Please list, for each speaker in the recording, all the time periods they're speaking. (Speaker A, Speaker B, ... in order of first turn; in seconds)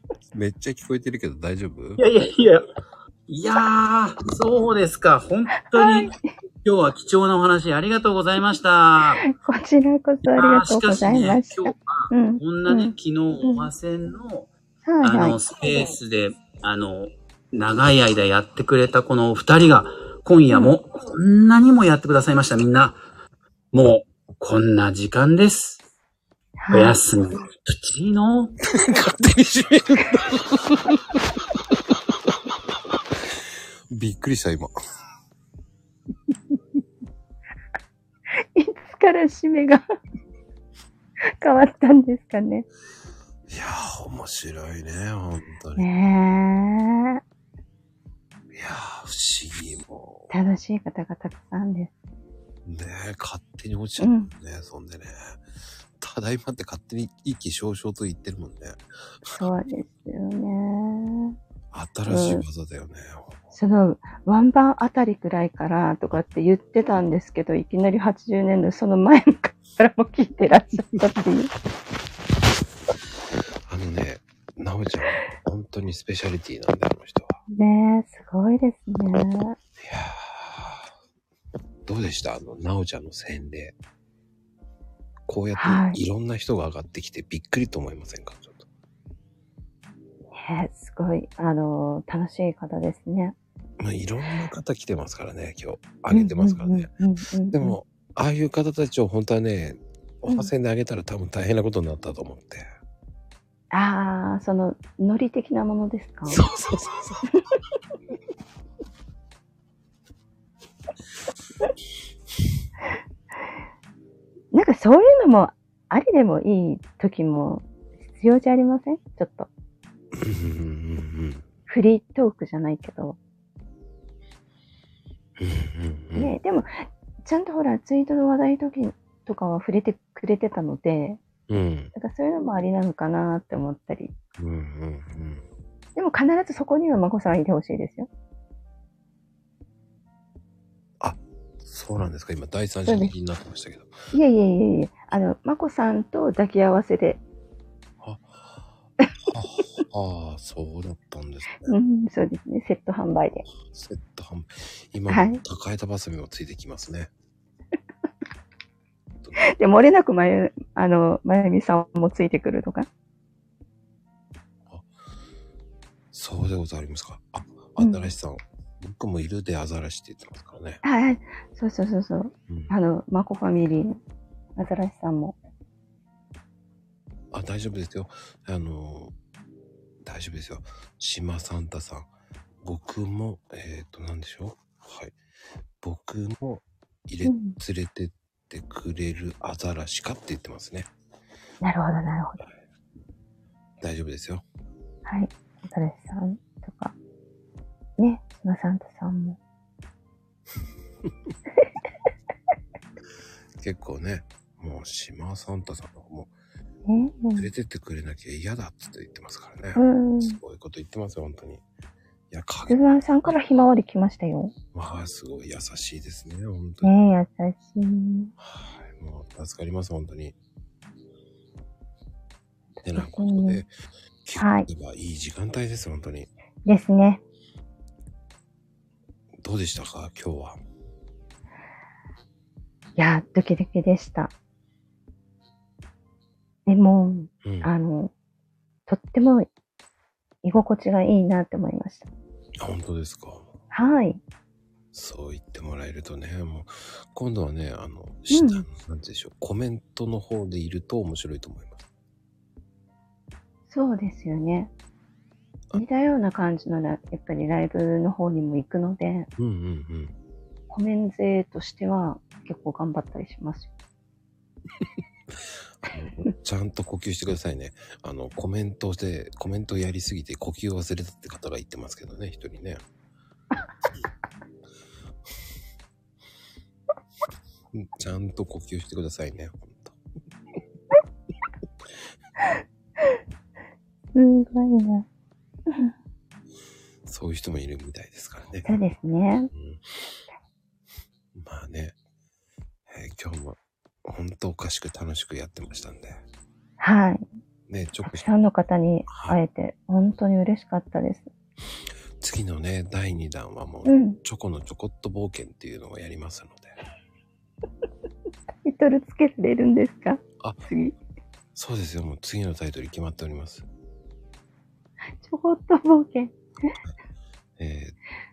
Speaker A: 0.3-2.0, 28.9-31.2, 33.9-34.7, 43.5-45.9, 48.5-50.3, 52.6-55.3, 56.0-59.4, 61.7-63.4, 73.7-77.4, 79.8-80.9, 81.9-83.8, 85.3-88.7, 93.8-96.9, 97.5-102.7, 106.3-107.2, 120.1-121.5, 125.4-126.4, 131.5-131.9, 134.4-135.4, 141.0-143.9, 148.0-148.6, 149.3-151.8, 153.5-157.1, 166.1-170.8, 172.5-172.7, 177.3-179.1, 180.0-182.1, 182.6-185.2, 185.8-190.9, 193.8-194.4, 203.6-206.3, 207.3-211.6, 212.3-213.3, 214.7-216.9, 218.4-220.4, 222.8-223.7, 224.2-226.3, 229.4-230.6, 237.4-237.7, 242.6-243.5, 244.9-251.8, 259.4-260.1, 265.8-272.8, 277.7-280.0, 287.1-288.8, 289.5-290.0, 291.4-291.9, 292.9-296.2, 297.7-298.3, 299.1-299.4, 302.2-306.8, 311.6-313.7, 317.6-318.0
Speaker B: 2.0-2.6, 3.3-6.1, 6.6-9.2, 10.2-14.5, 15.0-23.0, 23.7-25.8, 26.7-28.5
Speaker C: 5.7-6.3, 9.2-13.7, 14.8-15.4, 26.6-27.0, 38.5-39.8, 41.3-42.7, 45.8-47.2, 50.3-51.9, 54.0-54.3, 59.3-61.4, 62.1-62.5, 63.5-71.5, 77.5-79.6, 85.6-86.0, 90.3-93.4, 96.1-97.8, 103.7-106.5, 114.5-119.5, 121.7-123.2, 126.2-131.2, 131.9-134.1, 136.0-138.1, 142.9-143.1, 144.1-147.2, 151.7-153.5, 155.1-155.4, 159.4-162.9, 167.8-168.1, 170.8-174.0, 174.6-175.4, 187.2-187.6, 191.6-192.4, 195.1-196.9, 198.0-199.4, 206.9-207.5, 209.8-210.4, 212.7-214.5, 216.8-218.3, 222.8-223.6, 224.4-224.7, 226.7-227.2, 233.0-234.3, 236.7-238.1, 238.9-239.5, 240.4-242.1, 243.7-244.2, 248.3-248.7, 253.7-254.7, 255.7-259.3, 260.7-263.7, 284.1-285.1, 288.7-289.5, 296.8-297.3, 298.0-301.3, 303.9-304.2, 308.6-310.9, 315.2-316.7